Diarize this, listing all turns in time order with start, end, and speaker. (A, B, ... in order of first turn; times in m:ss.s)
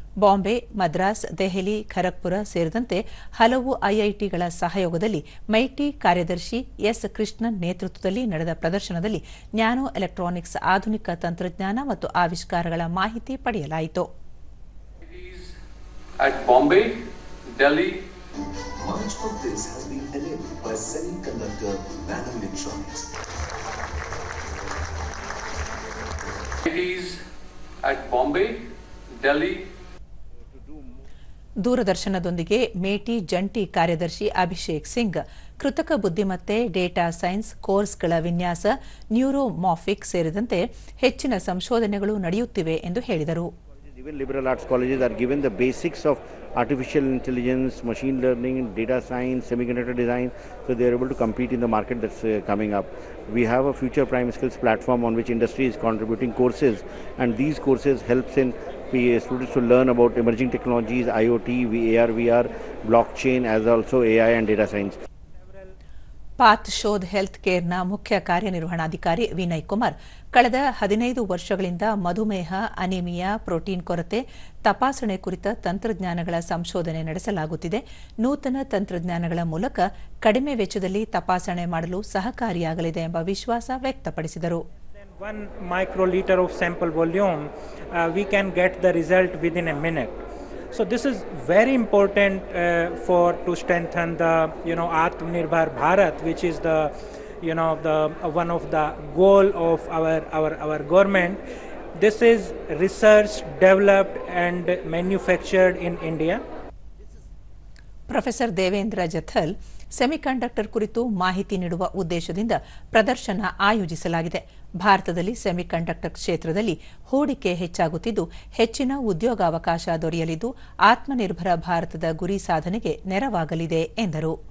0:00.2-0:14.1 A
0:15.0-0:15.5 B
0:16.2-0:18.0 B
0:18.8-0:23.1 C
0:26.6-0:27.2 B
0:27.8-0:28.6 B
0:29.2-0:29.7 B
0:31.6-0:43.5 A
0:43.9-1:05.0 D
1:05.4-1:05.7 E
1:06.4-1:24.6 A
1:25.1-1:41.4 E
1:42.0-1:46.4 E
1:48.1-2:04.4 A